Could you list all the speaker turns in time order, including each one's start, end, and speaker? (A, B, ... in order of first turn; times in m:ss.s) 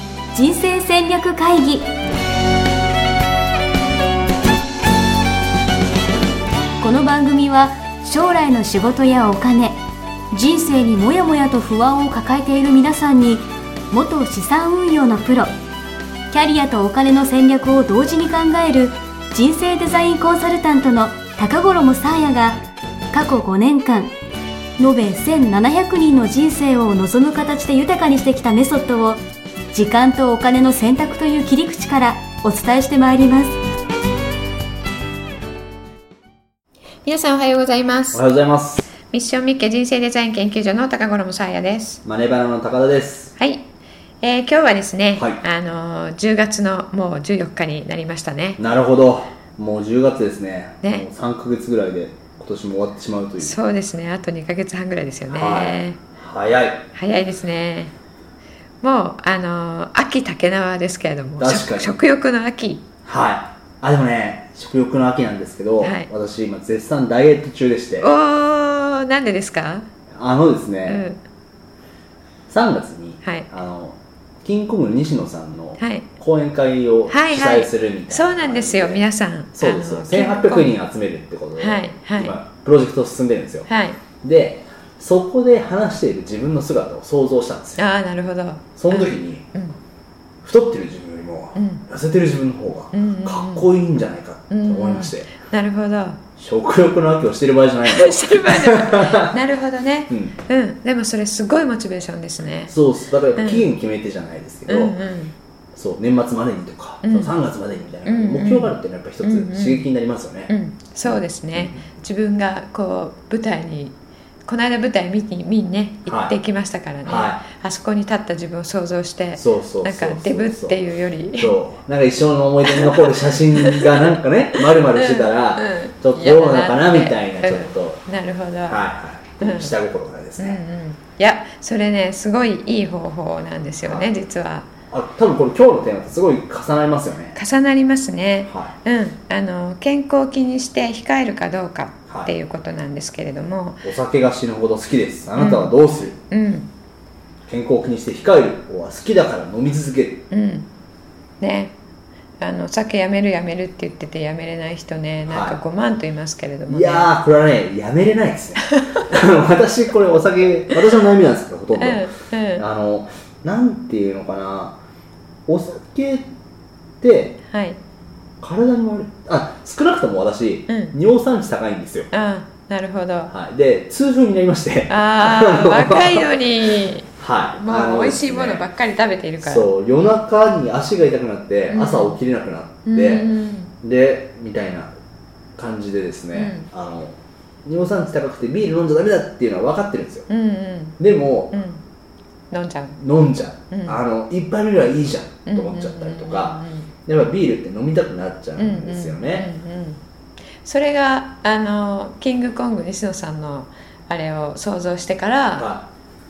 0:00.3-0:01.9 A
0:06.8-0:09.8 A
0:10.3-0:15.5 A
0:16.3-0:22.6 A
0:23.1-0:24.1 A
0:24.8-0:29.2 A
0:29.7-0:33.5 A
0:37.0-0:38.2 B
0:38.1-0:38.9 C
0:39.1-0:42.0 B
0:42.0-0:43.4 C
0:43.4-0:43.7 B
0:44.2-0:48.6 B
0:45.2-0:45.4 C
0:48.6-0:53.6 C
0:53.4-0:56.0 B
0:55.3-0:56.9 C
0:56.9-0:57.9 B
0:58.8-1:02.9 B
1:01.4-1:01.9 C
1:03.0-1:08.1 C
1:05.8-1:06.1 B
1:08.0-1:09.9 B
1:10.2-1:11.0 C
1:10.9-1:11.2 B
1:12.5-1:19.0 C
1:13.2-1:13.5 B
1:15.8-1:16.1 B
1:17.1-1:20.8 B
1:19.6-1:23.7 C
1:21.6-1:22.4 B
1:23.7-1:24.0 B
1:24.2-1:27.8 C
1:27.8-1:29.8 B
1:28.8-1:29.4 C
1:30.4-1:35.3 C
1:31.6-1:31.8 B
1:32.9-1:33.7 B
1:34.5-1:36.2 B
1:36.4-1:39.4 C
1:37.8-1:42.8 B
1:42.7-1:45.0 C
1:43.4-1:43.7 B
1:44.7-1:45.4 B
1:45.8-1:50.5 C
1:47.0-1:47.3 B
1:48.0-1:49.9 B
1:50.5-2:01.6 B
1:51.0-1:51.8 C
1:56.1-1:56.4 C
1:57.0-1:57.4 C
1:59.4-2:00.8 C
2:01.4-2:08.0 C
2:02.6-2:04.0 B
2:04.7-2:08.8 B
2:08.7-2:10.6 C
2:09.4-2:09.8 B
2:10.4-2:14.7 B
2:14.9-2:17.4 C
2:17.4-2:23.9 B
2:18.5-2:18.7 C
2:23.8-2:26.2 C
2:25.4-2:25.8 B
2:26.3-2:26.7 B
2:27.5-2:30.2 C
2:30.3-2:30.7 B
2:31.4-2:31.8 B
2:32.4-2:37.2 B
2:35.3-2:35.6 C
2:36.7-2:44.8 C
2:41.8-2:42.6 B
2:45.5-2:46.3 C
2:47.0-2:47.4 C
2:47.5-2:47.8 B
2:48.4-2:52.1 C
2:50.7-2:51.0 B
2:52.1-2:53.3 B
2:53.3-2:56.3 C
2:54.9-2:59.7 B
2:57.2-2:58.7 C
2:59.4-3:04.9 C
3:01.7-3:02.2 B
3:02.9-3:03.7 B
3:05.6-3:10.3 C
3:06.3-3:06.7 B
3:10.3-3:11.0 B
3:11.0-3:11.6 C
3:11.5-3:11.8 B
3:12.5-3:13.0 B
3:13.0-3:19.5 C
3:13.7-3:14.0 B
3:15.5-3:16.9 B
3:18.6-3:20.0 B
3:20.6-3:25.7 B
3:25.6-3:25.9 C